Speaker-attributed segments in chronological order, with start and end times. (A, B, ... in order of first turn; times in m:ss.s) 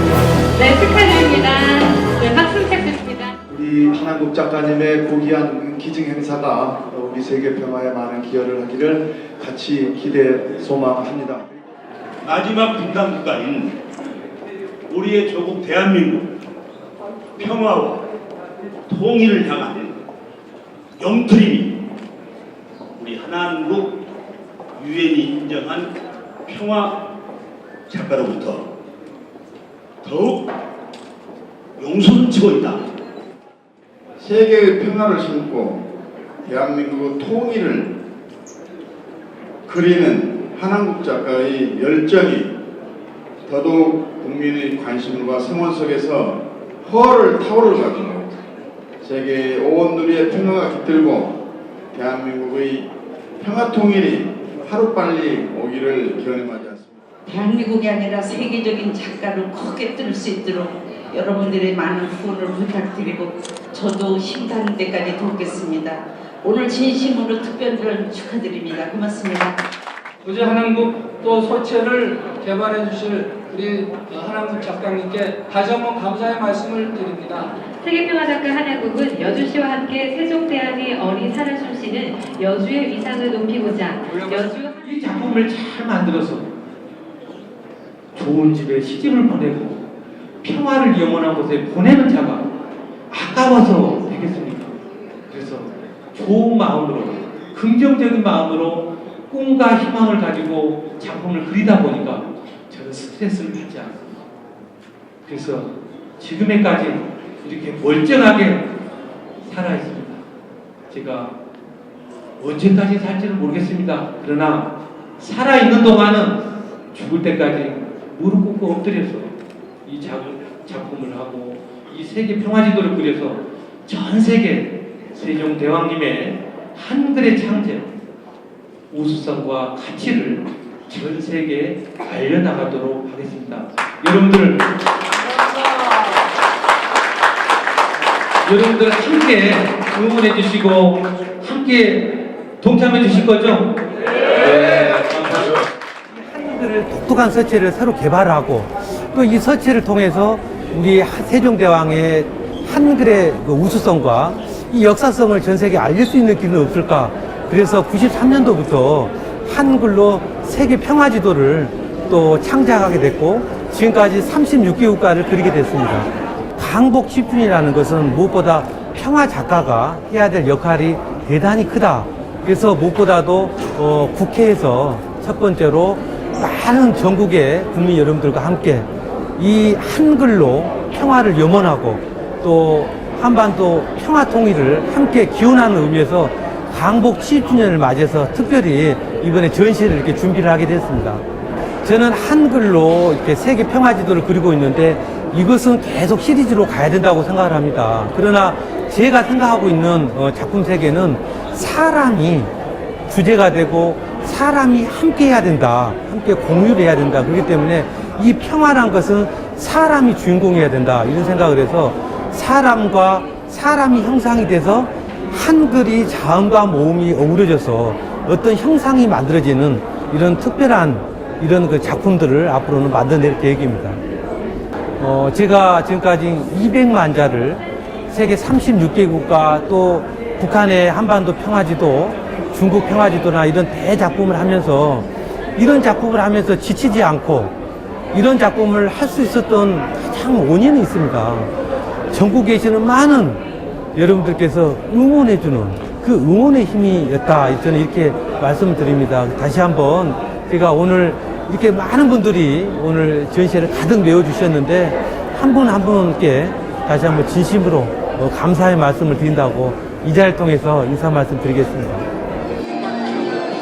0:00.5-0:03.3 A
0:03.5-0:11.4 B
0:12.2-0:13.7 C
0:14.9-0:16.2 C
0:17.4-0:18.0 C
0:18.9-0:19.9 C
0:21.0-0:21.7 C
0:23.0-0:24.0 C
0:24.8-0:25.9 C
0:26.5-0:26.9 C
0:27.9-0:28.6 C
0:30.0-0:30.4 C
0:31.8-0:32.8 C
0:34.2-0:35.9 D
0:36.4-0:38.0 D
0:39.6-0:42.6 D
0:43.4-0:48.3 D
0:49.0-0:51.4 D
0:51.9-0:57.0 D
0:57.3-1:09.6 E
1:10.2-1:17.5 F
1:17.8-1:24.7 A
1:24.8-1:26.4 G
1:28.2-1:29.8 G
1:30.4-1:32.4 G
1:33.1-1:34.7 G
1:35.3-1:43.9 G
1:45.3-1:48.7 G
1:49.4-1:50.2 G
1:50.9-1:51.3 G
1:52.4-1:59.3 G
1:59.8-2:07.9 G
2:08.9-2:14.7 G
2:18.4-2:23.7 G
2:24.4-2:25.6 G
2:26.3-2:28.6 G
2:27.3-2:28.7 H
2:29.1-2:32.0 G
2:29.4-2:46.1 H
2:32.6-2:34.1 G
2:35.2-2:36.7 G
2:38.0-2:38.8 G
2:40.8-2:41.2 G
2:43.9-2:44.2 G
2:46.6-2:58.8 H
2:47.3-2:48.4 G
2:52.8-2:53.1 G
2:55.3-2:55.6 G
2:56.7-2:57.2 G
2:59.4-3:11.2 H
3:05.5-3:06.0 G
3:09.1-3:09.5 G
3:11.8-3:22.5 H
3:15.5-3:16.2 G
3:23.1-3:44.0 H
3:23.6-3:25.7 G
3:26.7-3:27.7 G
3:28.3-3:29.1 G
3:34.0-3:34.7 G
3:35.8-3:36.4 G
3:38.3-3:39.6 G
3:41.7-3:43.8 G
3:45.0-3:47.6 H
3:45.1-3:47.4 G
3:48.1-3:55.0 H
3:48.2-3:48.6 G
3:50.7-3:51.7 G
3:52.7-3:54.7 G
3:55.6-3:57.5 H
3:55.8-3:57.2 G
3:58.1-4:01.5 H
3:59.9-4:00.8 G
4:02.1-4:03.4 H
4:02.2-4:03.1 G
4:04.0-4:22.0 H
4:04.1-4:07.9 G
4:09.1-4:09.6 G